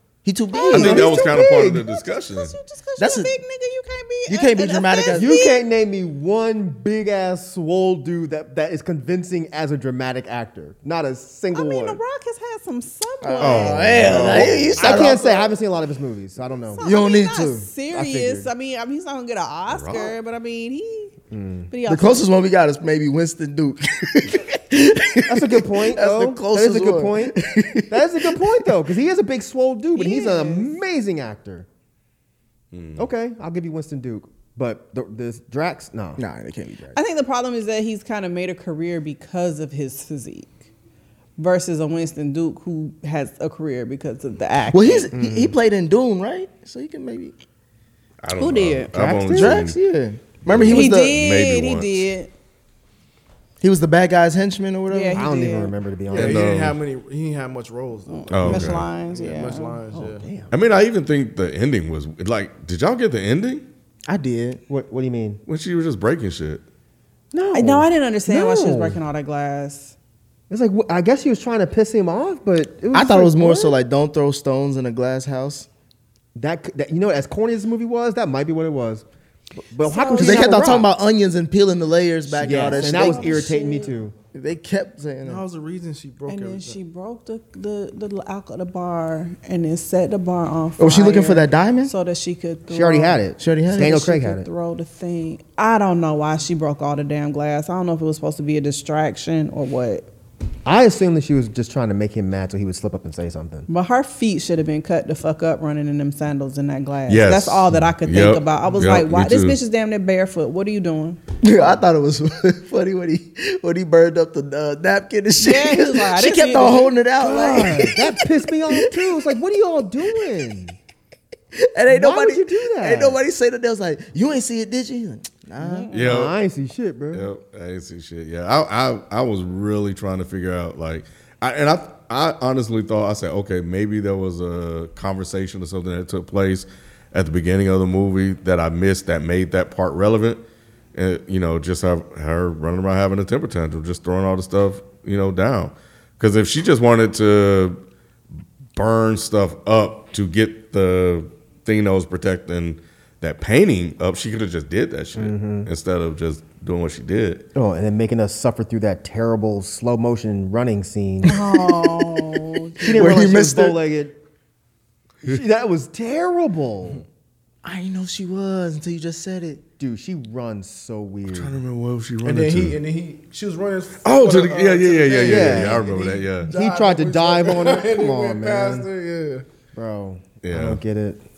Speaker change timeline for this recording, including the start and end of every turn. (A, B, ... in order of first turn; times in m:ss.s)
0:00.2-0:01.2 A
0:00.5-0:05.6 B
0:00.7-0:01.8 C
0:00.7-0:02.5 D
0:03.0-0:03.4 A
0:04.3-0:05.3 A
0:05.1-0:12.0 C
0:11.5-0:13.8 B
0:13.2-0:15.5 A
0:13.4-0:15.0 D
0:14.0-0:16.8 C
0:16.7-0:21.1 B
0:16.8-0:17.7 A
0:17.9-0:18.5 C
0:19.7-0:20.2 D
0:21.3-0:21.7 C
0:21.7-0:22.3 B
0:21.8-0:28.7 A
0:25.3-0:27.4 C
0:27.9-0:31.7 C
0:29.9-0:30.8 B
0:32.7-0:33.1 D
0:33.0-0:36.2 C
0:36.2-0:37.0 A
0:36.9-0:40.6 B
0:41.4-0:45.1 B
0:44.7-0:47.3 A
0:45.1-0:45.5 C
0:48.2-0:49.8 D
0:48.4-0:48.9 B
0:48.9-0:49.6 C
0:49.3-0:51.2 A
0:50.4-0:52.1 D
0:50.7-0:52.3 B
0:53.6-0:55.3 A
0:54.9-0:55.7 B
0:55.1-0:56.5 C
0:56.1-0:56.8 D
0:56.1-1:00.2 E
0:58.1-0:59.8 B
0:58.3-0:58.9 D
0:59.9-1:00.5 C
1:00.5-1:03.6 D
1:04.1-1:04.6 A
1:04.7-1:05.4 C
1:05.5-1:06.6 D
1:07.3-1:09.0 C
1:07.5-1:09.9 B
1:10.5-1:13.8 C
1:12.9-1:15.7 A
1:16.3-1:19.0 C
1:19.6-1:20.9 C
1:19.8-1:20.8 B
1:20.2-1:23.5 A
1:22.4-1:24.1 C
1:22.5-1:23.9 B
1:24.3-1:25.4 A
1:25.2-1:26.8 E
1:26.3-1:33.2 B
1:30.8-1:31.9 A
1:32.7-1:34.5 C
1:33.4-1:34.1 A
1:33.8-1:40.1 B
1:40.6-1:43.7 C
1:43.7-1:51.2 B
1:47.1-1:49.6 D
1:51.4-1:59.3 A
1:55.4-1:57.9 B
1:57.2-2:00.8 C
2:01.6-2:05.9 A
2:01.9-2:03.2 C
2:05.6-2:05.9 B
2:05.9-2:06.4 D
2:06.0-2:07.3 C
2:07.1-2:20.4 D
2:20.9-2:27.8 D
2:28.8-2:37.5 D
2:35.2-2:35.7 C
2:37.5-2:41.4 C
2:41.2-2:43.2 B
2:41.3-2:42.1 A
2:42.8-2:44.2 C
2:42.9-2:43.8 A
2:45.2-2:47.0 C
2:47.6-2:49.6 A
2:49.8-2:51.5 C
2:51.3-2:52.8 D
2:52.2-2:59.4 E
2:54.0-2:56.5 D
2:55.2-2:55.9 C
2:56.5-2:58.9 C
2:59.7-3:01.2 C
3:00.4-3:00.8 D